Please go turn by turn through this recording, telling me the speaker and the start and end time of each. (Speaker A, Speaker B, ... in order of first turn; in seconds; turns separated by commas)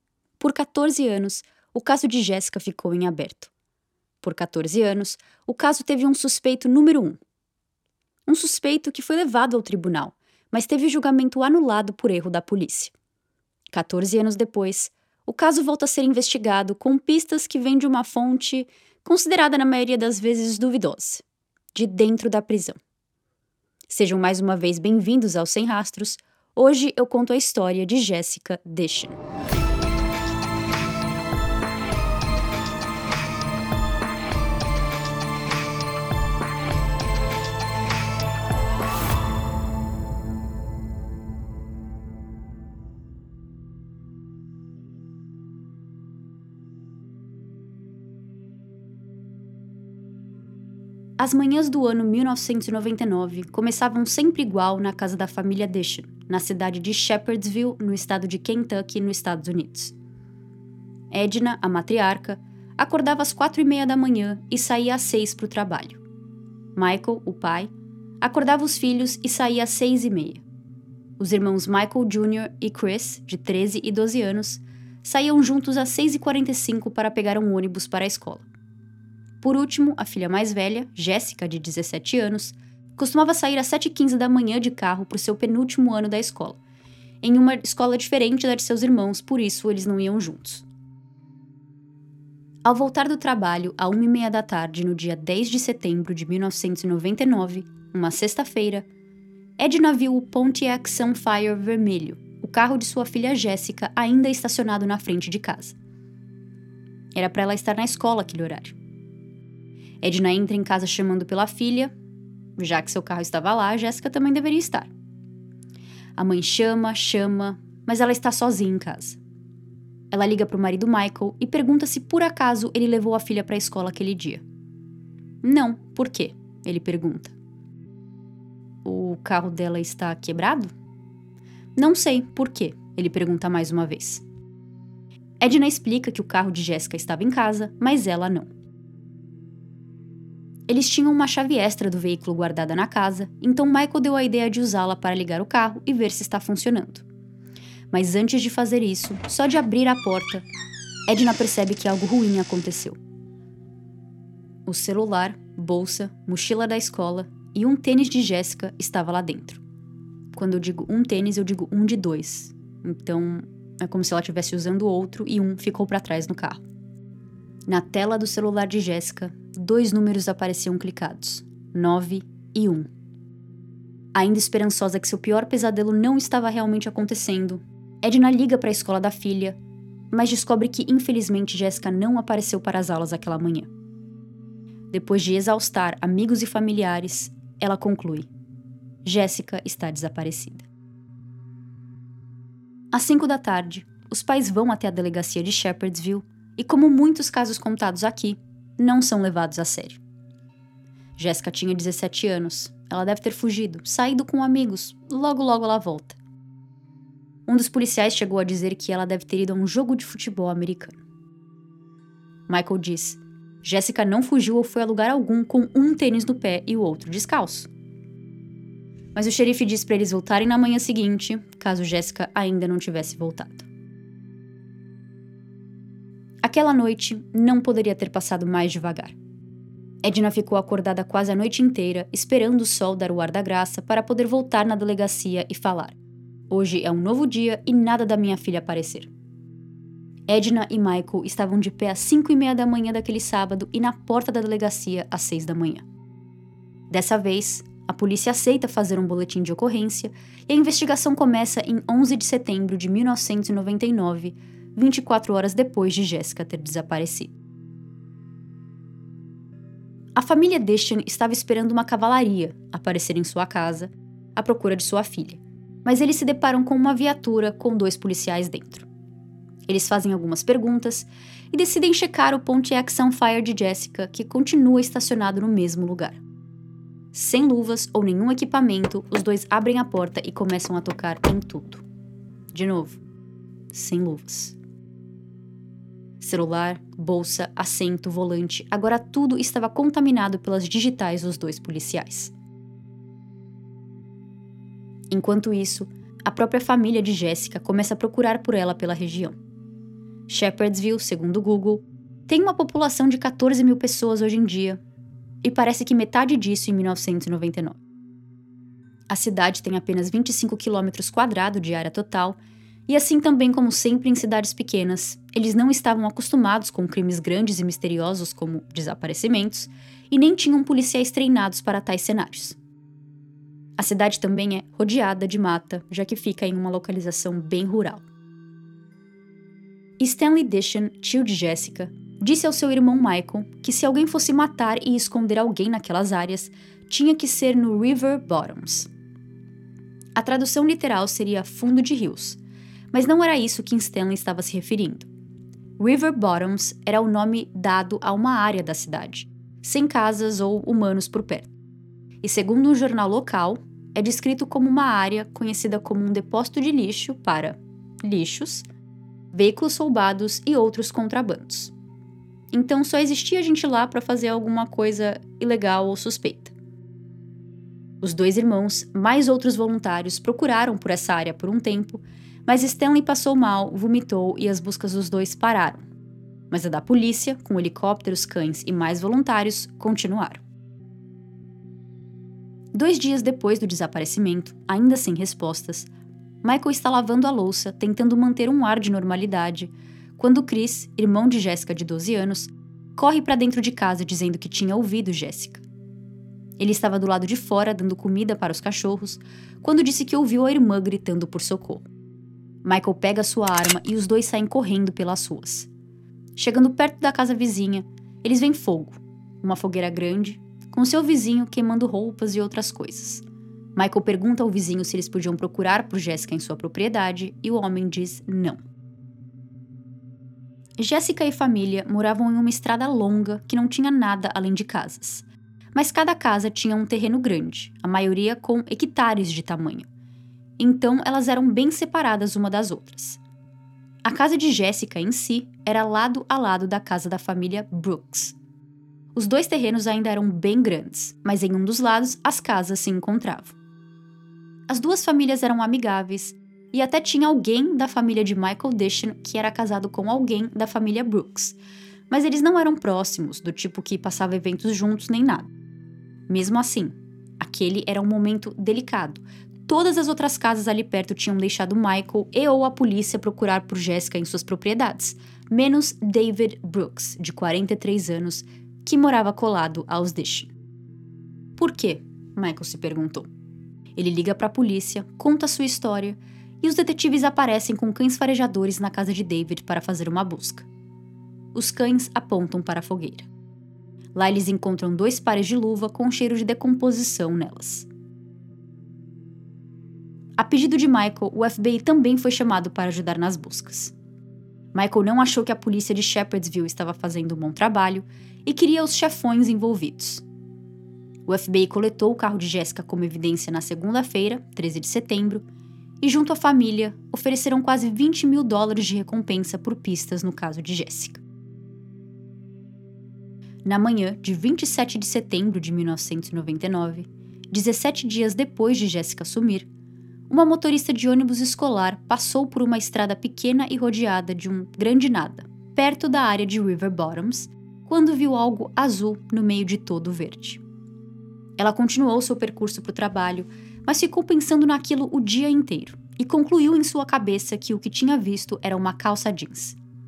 Speaker A: 0.4-3.5, Speaker A: 4.2-7.2, Speaker A: 8.3-12.9, Speaker A: 13.7-21.2, Speaker A: 21.8-22.8, Speaker A: 23.9-29.2, Speaker A: 51.2-60.0, Speaker A: 61.1-66.0, Speaker A: 66.8-70.4, Speaker A: 71.2-78.5, Speaker A: 79.4-86.6, Speaker A: 87.2-90.7, Speaker A: 92.7-98.9, Speaker A: 99.6-105.8, Speaker A: 107.2-108.8, Speaker A: 110.0-111.9, Speaker A: 112.6-114.9, Speaker A: 116.2-119.2, Speaker A: 120.1-124.4, Speaker A: 125.4-127.3, Speaker A: 128.8-130.7, Speaker A: 131.8-134.2, Speaker A: 135.4-138.5, Speaker A: 140.7-147.1, Speaker A: 147.9-150.4, Speaker A: 151.1-153.0, Speaker A: 154.7-159.6, Speaker A: 160.3-166.6, Speaker A: 167.7-172.9, Speaker A: 174.1-179.6, Speaker A: 180.1-183.7, Speaker A: 184.9-188.3, Speaker A: 189.1-190.7, Speaker A: 192.9-200.0, Speaker A: 201.2-206.2, Speaker A: 207.5-211.0, Speaker A: 212.5-217.7, Speaker A: 219.2-223.7, Speaker A: 226.4-229.2, Speaker A: 230.0-236.0, Speaker A: 236.5-239.1, Speaker A: 240.3-245.9, Speaker A: 246.9-257.3, Speaker A: 260.2-268.9, Speaker A: 269.7-276.2, Speaker A: 277.1-281.8, Speaker A: 282.5-283.0, Speaker A: 283.7-284.6, Speaker A: 286.2-292.3, Speaker A: 295.1-299.4, Speaker A: 300.3-304.8, Speaker A: 305.4-307.8, Speaker A: 309.1-312.4, Speaker A: 312.9-322.6, Speaker A: 323.8-328.1, Speaker A: 330.0-338.9, Speaker A: 340.2-342.4, Speaker A: 342.9-345.1, Speaker A: 345.8-351.5, Speaker A: 352.2-358.7, Speaker A: 359.3-361.7, Speaker A: 362.5-366.5, Speaker A: 368.0-375.9, Speaker A: 376.5-380.4, Speaker A: 382.7-385.9, Speaker A: 386.4-395.6, Speaker A: 396.6-401.9, Speaker A: 402.6-405.7, Speaker A: 406.4-413.2, Speaker A: 413.8-418.6, Speaker A: 420.8-429.9, Speaker A: 430.6-433.2, Speaker A: 434.1-438.4, Speaker A: 439.1-443.6, Speaker A: 444.7-451.6, Speaker A: 452.1-455.5, Speaker A: 456.3-470.5, Speaker A: 471.6-473.3, Speaker A: 474.0-480.7, Speaker A: 481.5-483.3, Speaker A: 484.1-487.9, Speaker A: 490.4-493.9, Speaker A: 494.7-500.2, Speaker A: 501.3-505.4, Speaker A: 506.0-511.2, Speaker A: 513.6-519.7, Speaker A: 520.3-530.6, Speaker A: 531.6-539.8